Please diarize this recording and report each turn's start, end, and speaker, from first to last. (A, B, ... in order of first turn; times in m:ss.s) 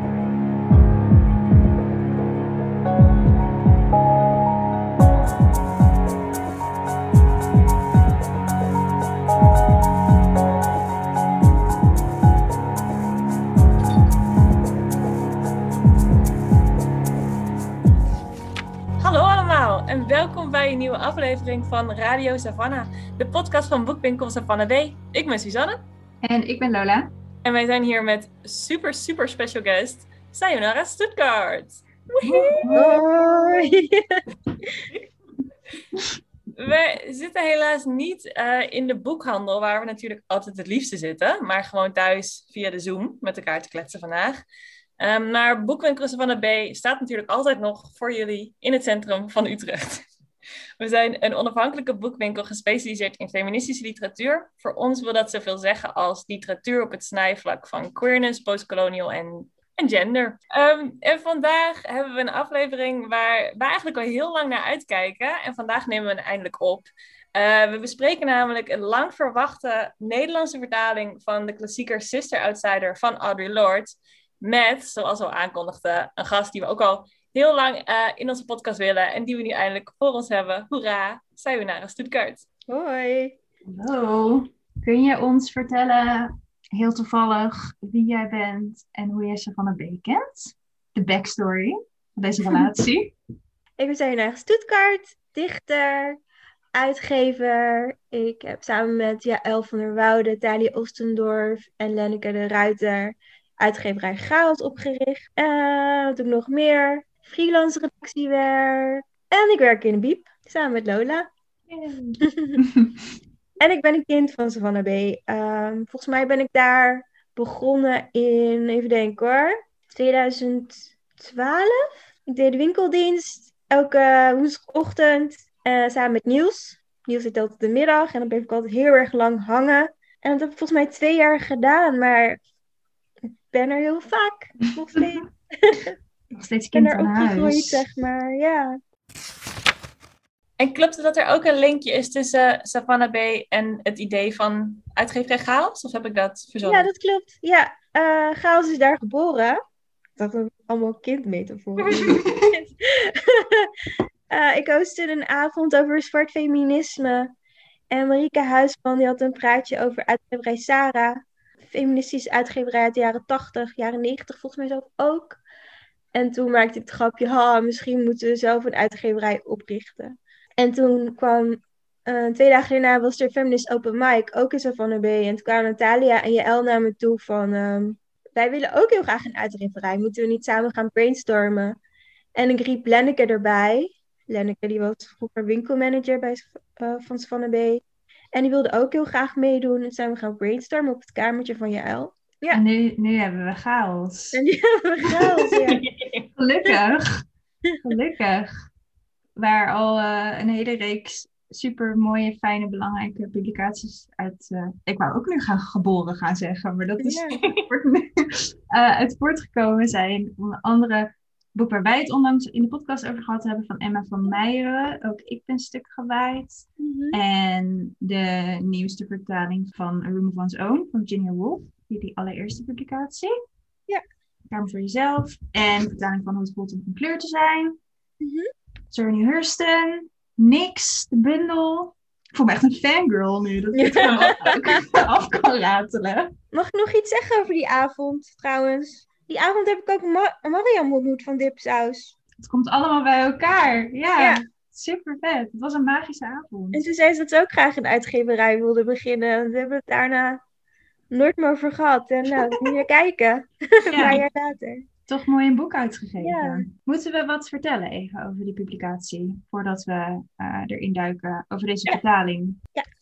0:19.0-0:25.8 A
0:26.2-0:27.1 B
0:27.4-0:31.8 A
0:32.2-0:34.8 C
0:32.2-0:33.0 B
0:36.6-0:44.4 A
0:45.0-0:50.0 A
0:50.8-1:22.4 A
1:22.7-1:23.4 C
1:23.6-1:33.1 B
1:33.8-1:36.2 C
1:36.7-1:51.3 C
1:51.7-1:53.0 B
1:52.2-1:52.6 C
1:53.6-2:12.4 C
2:13.5-2:15.9 C
2:16.3-2:17.8 B
2:16.7-2:18.8 C
2:20.6-2:26.9 A
2:26.6-2:29.6 C
2:30.2-2:33.7 C
2:31.9-2:32.5 B
2:34.3-2:37.3 C
2:37.9-2:45.4 C
2:46.1-3:01.7 C
3:02.4-3:07.8 C
3:08.3-3:12.6 C
3:12.5-3:14.4 B
3:14.3-3:15.8 C
3:15.8-3:16.3 A
3:16.4-3:17.1 B
3:17.8-3:18.5 B
3:19.4-3:43.3 B
3:27.0-3:27.4 C
3:36.8-3:37.2 C
3:44.5-3:47.8 B
3:48.2-3:48.5 C
3:48.9-3:56.3 B
3:53.7-3:54.8 C
3:56.5-4:02.1 C
4:02.4-4:06.8 B
4:04.2-4:04.4 C
4:06.7-4:10.4 C
4:11.1-4:14.8 C
4:13.9-4:14.2 B
4:15.1-4:22.6 B
4:16.2-4:16.6 C